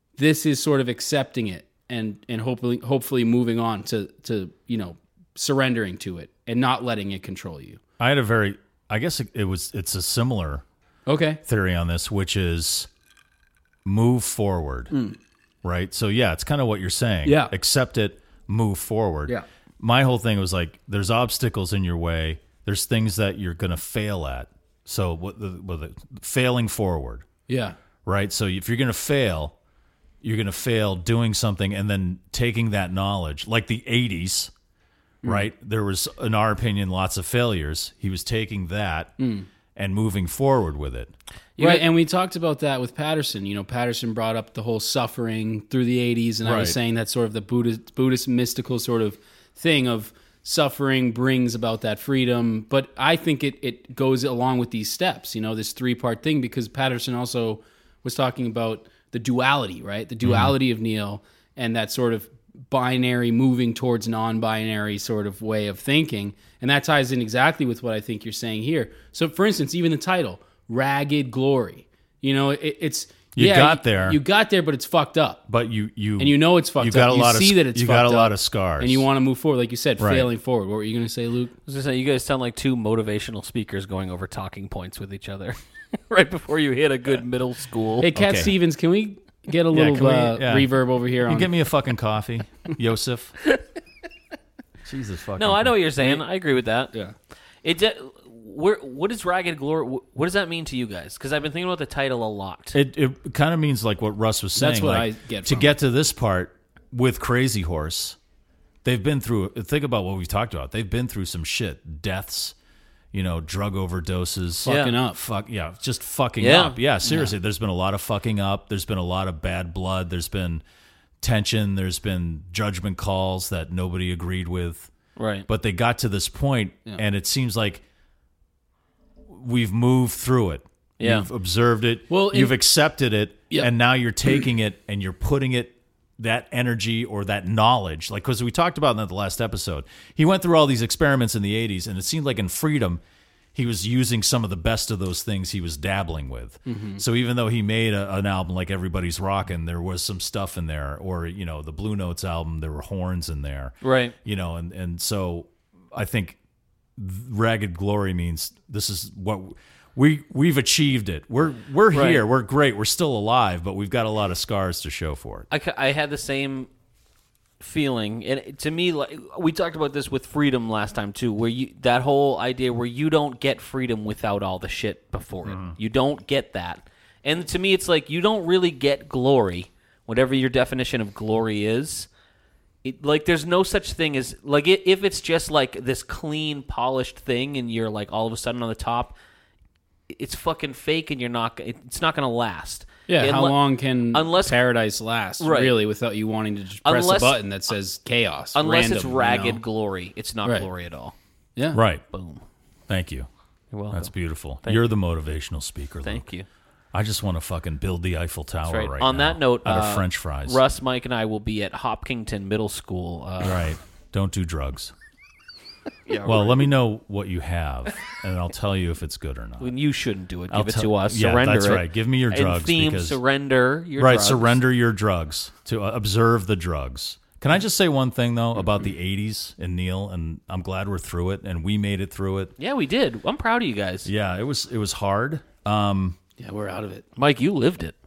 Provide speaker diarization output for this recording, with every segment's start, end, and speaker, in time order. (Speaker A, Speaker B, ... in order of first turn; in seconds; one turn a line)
Speaker A: 0.2-7.8
Speaker B: 8.0-10.6
Speaker A: 11.1-11.4
Speaker B: 11.4-12.9
Speaker B: 13.8-14.9
Speaker A: 14.9-15.2
Speaker B: 15.6-27.2
Speaker A: 17.2-17.5
Speaker A: 27.5-27.8
Speaker B: 28.1-29.6
Speaker B: 30.2-34.5
Speaker A: 35.2-35.5
Speaker B: 35.2-39.1
Speaker A: 39.2-39.5
Speaker B: 39.8-41.1
Speaker C: 41.6-41.9
Speaker A: 41.6-75.4
Speaker B: 46.4-46.8
Speaker B: 60.2-60.5
Speaker B: 73.3-74.2
Speaker B: 75.5-79.1
Speaker A: 76.2-81.5
Speaker B: 80.0-80.3
Speaker C: 81.7-88.1
Speaker A: 88.0-91.5
Speaker B: 88.2-88.5
Speaker B: 89.7-90.7
Speaker B: 91.2-93.4
Speaker B: 94.8-95.8
Speaker C: 95.4-96.9
Speaker C: 97.6-102.8
Speaker B: 102.7-108.2
Speaker A: 104.6-105.7
Speaker B: 108.8-112.5
Speaker B: 113.1-120.6
Speaker A: 114.6-115.2
Speaker C: 114.7-115.0
Speaker C: 116.4-116.8
Speaker A: 117.1-117.3
Speaker B: 121.2-124.9
Speaker C: 125.2-125.5
Speaker B: 125.5-127.8
Speaker B: 129.3-143.0
Speaker C: 131.0-131.3
Speaker A: 132.1-132.6
Speaker B: 143.6-156.4
Speaker A: 146.7-147.0
Speaker C: 153.8-154.2
Speaker B: 157.0-165.5
Speaker C: 161.9-162.2
Speaker C: 165.5-166.7
Speaker C: 167.6-182.1
Speaker B: 175.4-175.8
Speaker C: 182.8-189.2
Speaker C: 190.1-194.6
Speaker A: 193.1-199.6
Speaker C: 195.4-195.8
Speaker C: 196.8-197.4
Speaker C: 198.6-201.2
Speaker A: 201.6-201.8
Speaker B: 201.7-202.0
Speaker C: 202.1-202.4
Speaker B: 202.9-203.3
Speaker C: 203.7-204.9
Speaker B: 203.9-206.3
Speaker C: 206.0-206.5
Speaker B: 206.9-210.6
Speaker C: 208.7-213.7
Speaker B: 213.4-214.9
Speaker C: 216.1-216.7
Speaker B: 216.2-219.7
Speaker C: 219.6-224.6
Speaker B: 220.5-223.2
Speaker B: 224.0-232.5
Speaker C: 232.6-234.1
Speaker B: 234.1-236.2
Speaker A: 236.4-237.1
Speaker C: 237.2-237.9